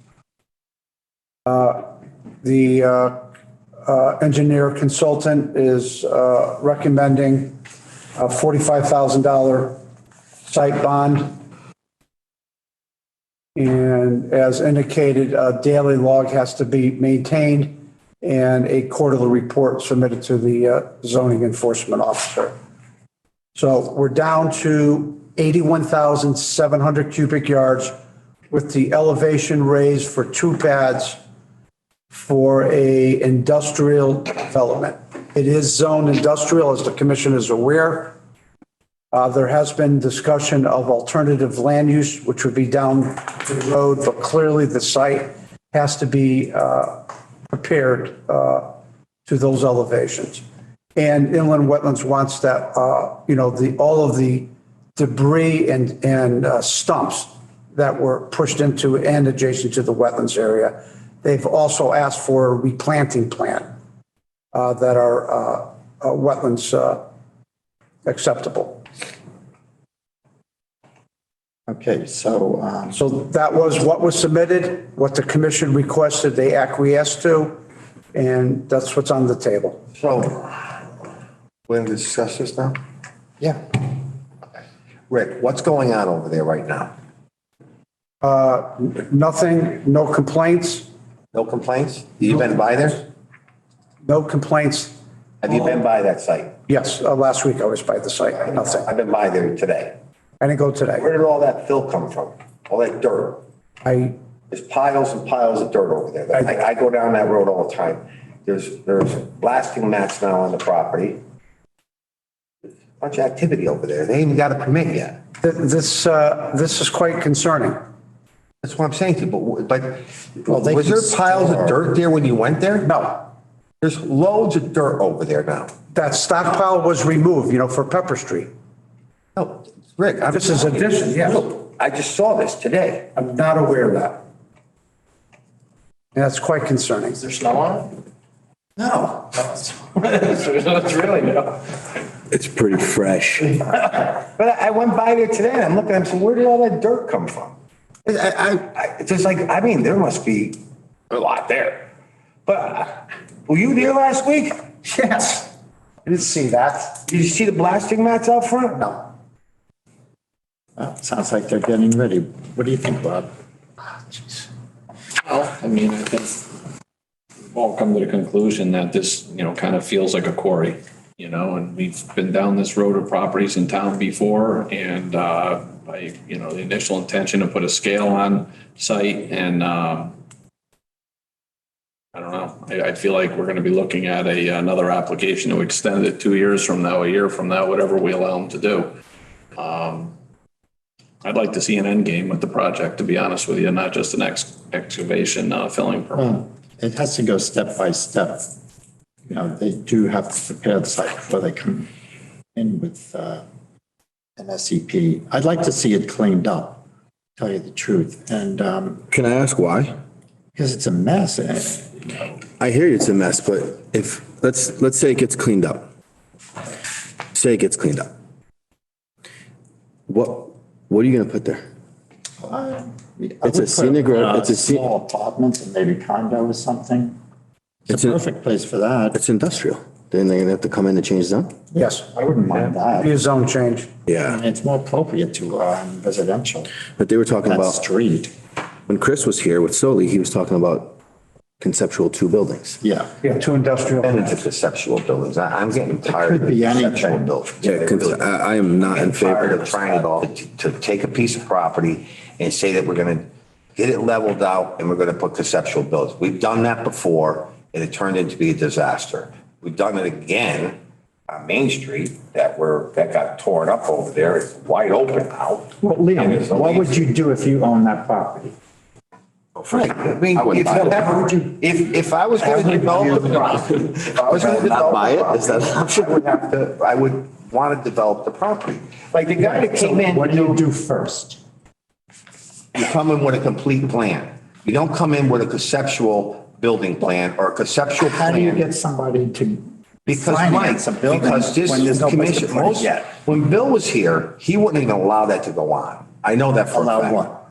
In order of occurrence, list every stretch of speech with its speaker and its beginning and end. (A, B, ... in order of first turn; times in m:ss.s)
0:01.4-0:01.8 A
0:02.4-0:03.2 A
0:03.8-0:07.6 A
0:08.2-0:09.8 A
0:10.5-0:11.4 A
0:13.6-0:22.5 A
0:23.6-0:28.0 A
0:28.5-0:31.2 A
0:32.1-0:38.2 A
0:39.1-0:48.7 A
0:49.3-0:50.4 A
0:51.0-1:03.7 A
1:04.5-1:07.0 A
1:08.0-1:08.8 A
1:11.7-1:13.0 B
1:12.9-1:17.6 A
1:18.1-1:19.8 A
1:20.0-1:20.8 C
1:21.7-1:22.8 C
1:23.4-1:23.9 C
1:25.1-1:26.9 C
1:28.2-1:30.9 A
1:31.3-1:33.0 C
1:34.0-1:35.0 A
1:35.4-1:36.6 C
1:36.7-1:38.9 A
1:38.4-1:40.0 C
1:40.4-1:41.1 A
1:41.0-1:43.4 C
1:43.8-1:44.1 A
1:44.5-1:51.2 C
1:53.0-1:55.2 C
1:55.4-1:57.8 A
1:58.6-2:02.9 C
2:00.5-2:01.8 B
2:02.8-2:03.3 A
2:03.8-2:05.7 C
2:05.9-2:08.5 A
2:09.4-2:13.1 C
2:10.2-2:11.5 A
2:13.2-2:14.2 A
2:16.2-2:17.2 A
2:17.3-2:17.8 D
2:18.8-2:19.6 C
2:20.0-2:21.6 D
2:22.3-2:23.7 E
2:23.8-2:27.5 C
2:28.1-2:30.6 C
2:31.1-2:31.9 C
2:32.5-2:34.6 C
2:34.9-2:35.5 A
2:36.0-2:37.0 A
2:37.0-2:39.0 C
2:40.8-2:43.3 B
2:45.2-2:46.5 D
2:47.5-3:00.2 D
3:02.1-3:08.9 D
3:09.6-3:10.1 D
3:11.2-3:16.3 D
3:16.1-3:18.5 B
3:19.3-3:21.9 B
3:22.5-3:23.4 B
3:24.4-3:26.8 B
3:27.4-3:29.1 B
3:29.1-3:30.0 E
3:30.5-3:32.4 B
3:32.6-3:35.9 E
3:37.3-3:38.1 E
3:40.1-3:41.6 E
3:42.4-3:47.2 B
3:43.4-3:44.8 E
3:47.9-3:48.2 E
3:47.9-3:49.2 B
3:49.1-3:51.5 E
3:51.7-3:53.1 B
3:51.8-3:53.9 A
3:54.1-3:54.4 E
3:54.2-3:56.7 B
3:57.0-3:57.8 E
3:57.4-3:58.3 B
3:58.9-4:01.0 E
4:01.6-4:02.8 E
4:02.8-4:03.1 B
4:03.2-4:04.1 A
4:04.0-4:20.8 C
4:06.1-4:07.3 B
4:07.6-4:10.0 E
4:21.3-4:27.0 C
4:25.8-4:28.5 B
4:29.6-4:31.1 E
4:29.7-4:40.6 C
4:32.4-4:36.2 E
4:39.4-4:41.4 B
4:42.7-4:48.6 C
4:48.1-4:53.0 B
4:50.1-4:57.2 C
4:56.7-4:57.4 B